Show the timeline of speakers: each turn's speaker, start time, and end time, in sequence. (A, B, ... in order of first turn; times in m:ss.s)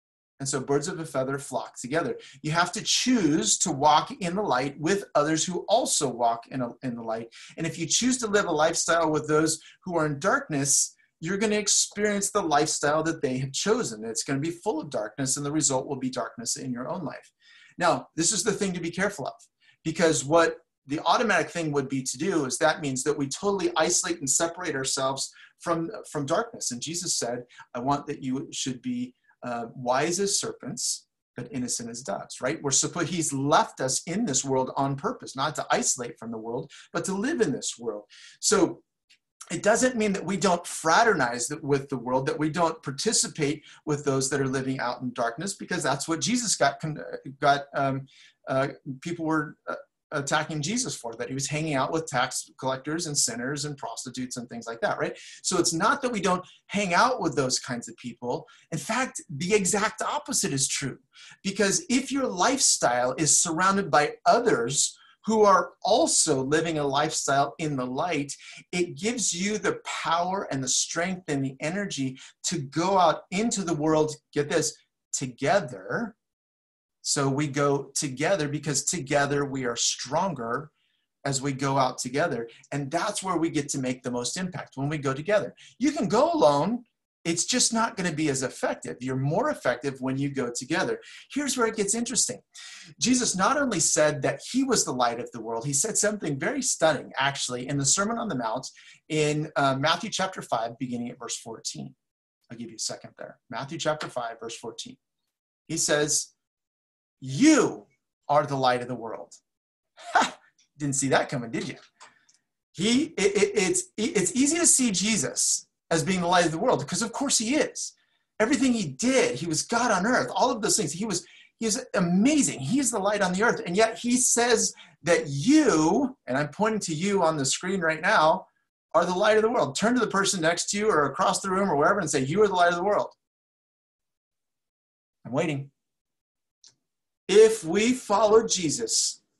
0:00.4-0:38.8 A
0:39.5-1:16.2 A
1:17.0-1:20.7 A
1:21.2-1:32.4 A
1:33.0-1:42.0 A
1:42.5-1:45.0 A
1:45.7-1:46.3 A
1:47.2-1:49.4 A
1:50.1-1:51.8 A
1:52.7-2:13.2 A
2:15.2-2:15.7 A
2:17.3-2:19.2 A